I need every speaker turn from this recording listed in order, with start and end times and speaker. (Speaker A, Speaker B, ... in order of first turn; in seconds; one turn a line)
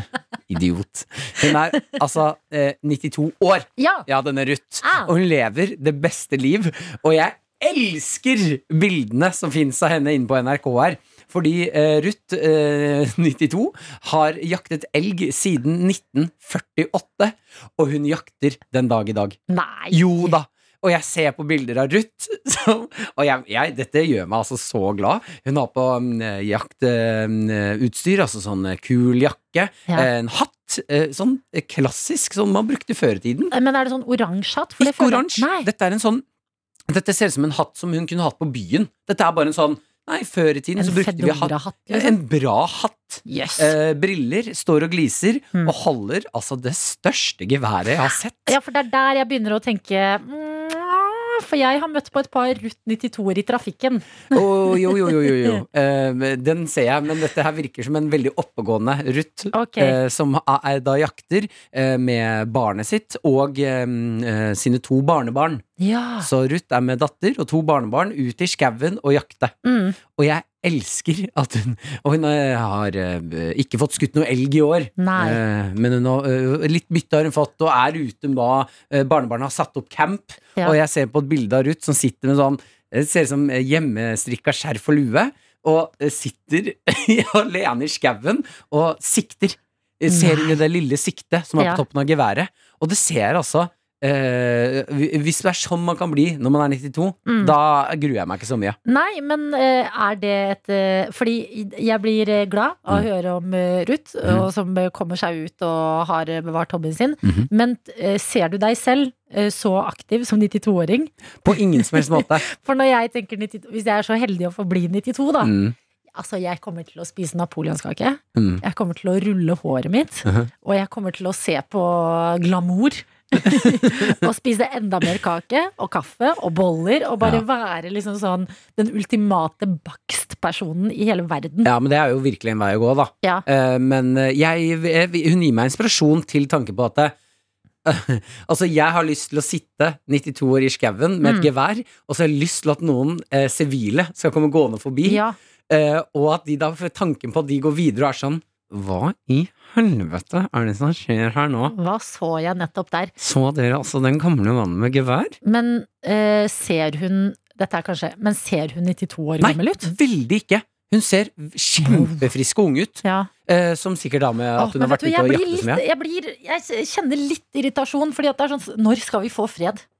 Speaker A: 0.5-19.4
Speaker B: 3.8-4.0
Speaker B: 4.8-5.1
Speaker B: 19.5-20.3
Speaker A: 19.9-33.5
Speaker B: 33.5-35.7
Speaker A: 34.8-36.2
Speaker A: 36.9-48.6
Speaker B: 40.8-42.2
Speaker B: 43.2-43.7
Speaker B: 48.5-54.4
Speaker A: 54.3-65.6
Speaker B: 55.0-55.3
Speaker B: 59.5-60.0
Speaker B: 65.8-66.3
Speaker A: 66.2-69.5
Speaker B: 69.6-70.0
Speaker A: 70.2-98.8
Speaker B: 75.0-75.4
Speaker B: 90.1-90.6
Speaker B: 97.2-97.5
Speaker B: 98.8-115.5
Speaker A: 107.2-107.5
Speaker A: 111.4-112.4
Speaker A: 115.4-115.8
Speaker B: 116.1-131.7
Speaker A: 118.3-118.6
Speaker A: 123.5-124.0
Speaker A: 131.6-137.1
Speaker A: 137.8-151.7
Speaker B: 141.2-141.5
Speaker B: 145.0-145.3
Speaker B: 151.7-153.1
Speaker A: 153.2-155.4
Speaker B: 155.4-159.9
Speaker A: 159.4-165.8
Speaker B: 161.8-162.2
Speaker B: 163.0-163.3
Speaker B: 164.6-169.8